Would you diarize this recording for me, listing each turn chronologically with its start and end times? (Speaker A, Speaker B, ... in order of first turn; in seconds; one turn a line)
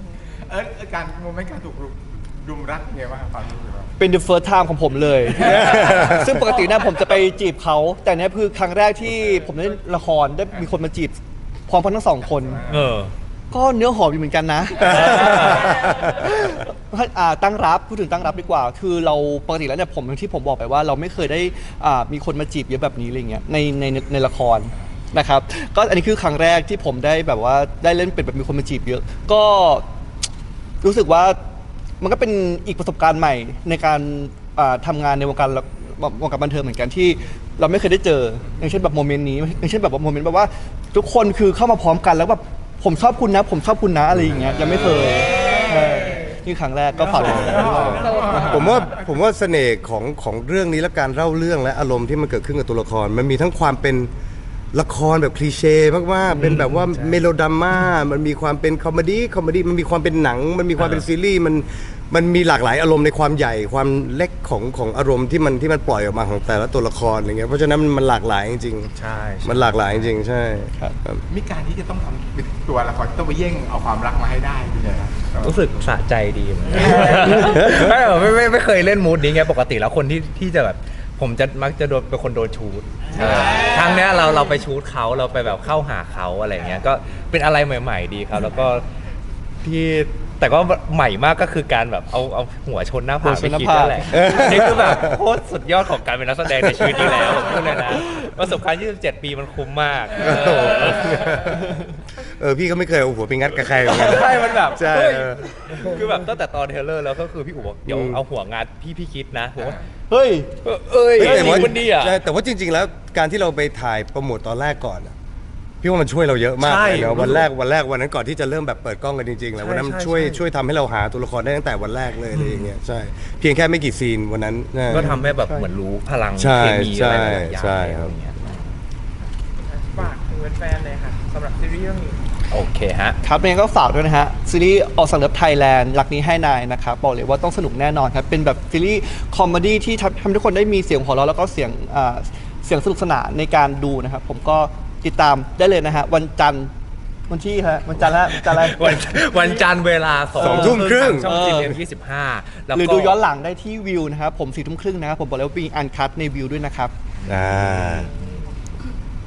Speaker A: 0.4-3.9
Speaker B: 4.0-12.6
Speaker C: 5.4-6.4
Speaker A: 12.5-12.9
Speaker D: 12.7-13.1
Speaker B: 13.5-29.8
Speaker D: 14.8-15.7
Speaker C: 14.9-16.1
Speaker B: 30.8-31.4
Speaker B: 32.0-48.6
Speaker C: 47.2-54.1
Speaker A: 47.3-48.9
Speaker C: 54.7-68.9
Speaker D: 56.4-57.2
Speaker D: 60.8-61.0
Speaker D: 69.0-70.1
Speaker C: 69.4-71.2
Speaker A: 71.3-75.6
Speaker D: 75.4-88.8
Speaker A: 76.8-77.6
Speaker C: 77.3-77.9
Speaker D: 89.6-101.4
Speaker B: 93.2-94.2
Speaker C: 94.1-95.2
Speaker C: 100.2-101.8
Speaker C: 102.3-105.4
Speaker D: 103.8-109.8
Speaker C: 107.8-108.2
Speaker B: 110.1-110.5
Speaker D: 110.6-112.2
Speaker C: 111.2-115.1
Speaker B: 111.2-111.8
Speaker C: 115.8-125.0
Speaker D: 116.6-117.5
Speaker D: 119.6-120.4
Speaker D: 122.3-122.7
Speaker D: 124.9-128.7
Speaker B: 124.9-125.7
Speaker C: 126.4-128.1
Speaker E: 129.7-132.2
Speaker D: 132.5-133.2
Speaker B: 133.2-146.7
Speaker B: 147.3-149.4
Speaker D: 148.0-153.2
Speaker C: 150.4-151.3
Speaker B: 150.4-151.8
Speaker B: 152.7-156.9
Speaker D: 157.2-158.1
Speaker C: 157.3-158.1